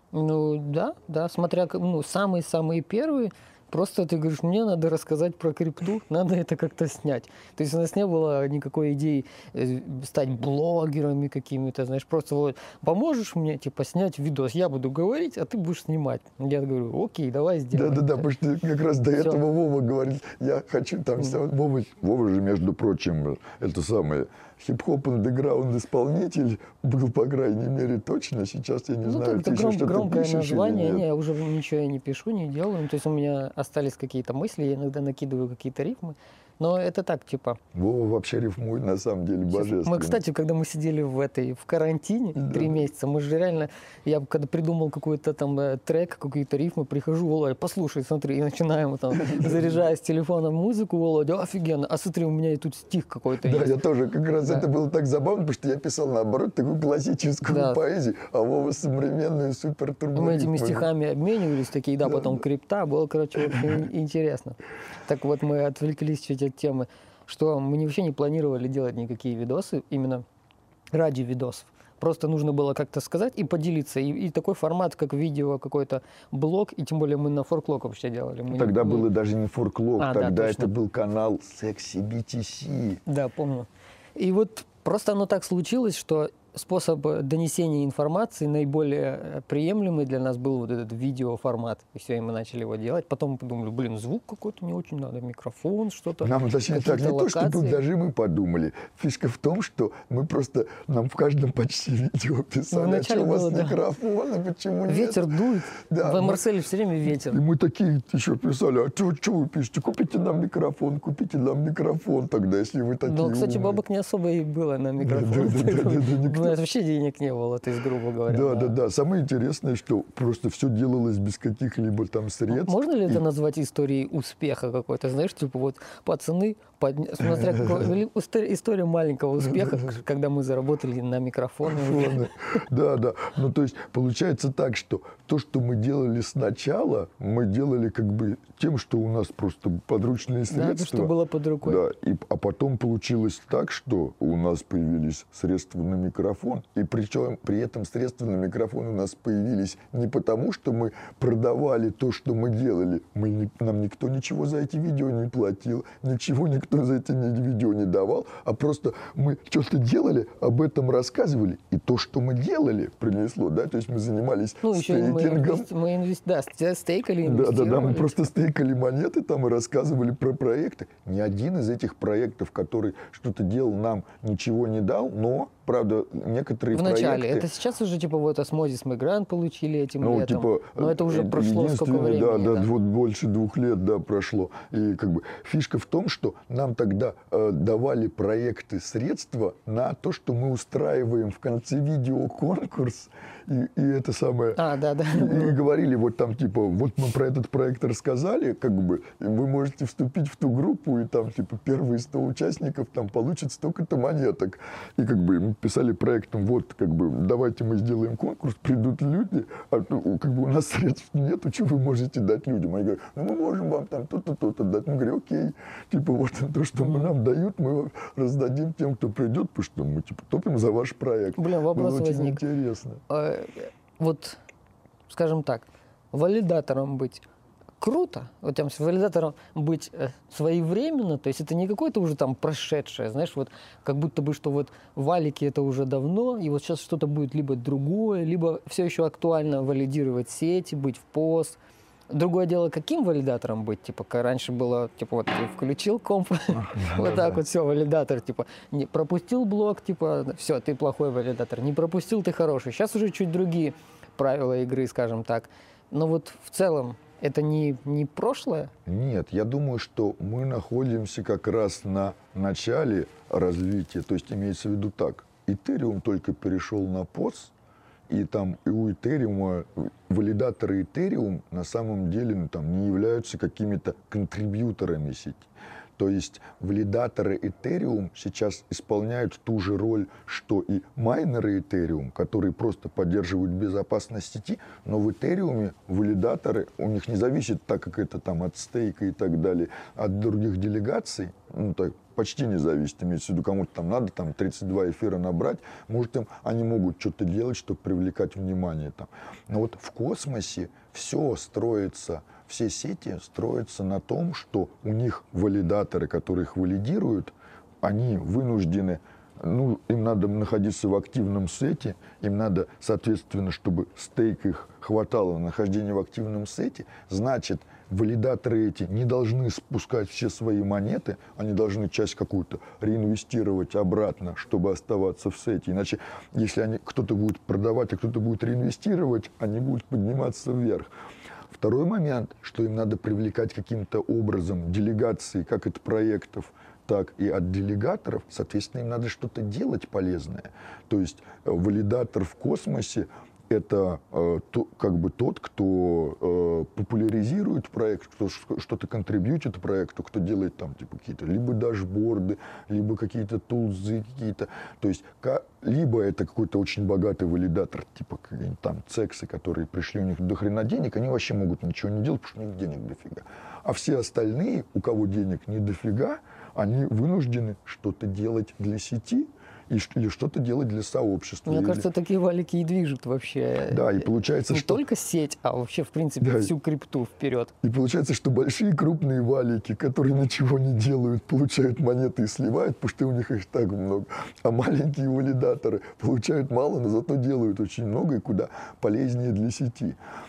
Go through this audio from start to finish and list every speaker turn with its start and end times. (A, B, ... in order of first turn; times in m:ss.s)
0:00.1-0:18.2 A
0:17.7-0:31.0 B
0:19.1-0:19.4 A
0:29.0-0:37.6 A
0:37.7-0:40.2 B
0:39.5-0:53.8 A
0:42.4-0:42.8 B
0:49.1-0:49.8 B
0:53.4-1:00.9 B
0:54.3-0:54.7 A
0:57.5-0:57.8 A
1:00.2-1:10.2 A
1:02.0-1:02.4 B
1:10.9-1:19.1 A
1:18.5-1:23.0 B
1:20.0-1:20.7 A
1:23.1-1:37.8 A
1:36.2-1:45.3 B
1:42.7-1:43.8 A
1:44.9-1:47.4 A
1:45.9-1:46.4 B
1:47.1-1:53.8 B
1:53.0-1:58.8 A
1:55.0-1:56.6 B
1:58.3-2:03.2 B
2:02.5-2:12.3 A
2:07.2-2:07.9 B
2:09.4-2:10.0 B
2:11.7-2:45.7 B
2:20.5-2:21.8 A
2:44.6-2:48.2 A
2:47.2-2:57.5 B
2:56.7-3:02.7 A
3:00.0-3:14.6 B
3:14.6-3:15.6 A
3:15.1-3:43.0 B
3:41.4-3:42.4 A
3:43.1-3:44.4 A
3:45.1-3:47.2 A
3:47.8-4:01.6 A
4:02.1-4:18.7 A
4:06.5-4:07.4 B
4:18.9-4:27.5 B
4:28.1-5:30.9 B
5:31.5-6:11.9 B
6:11.5-6:17.5 A
6:13.7-6:14.8 B
6:16.2-6:16.5 B
6:17.6-6:30.0 B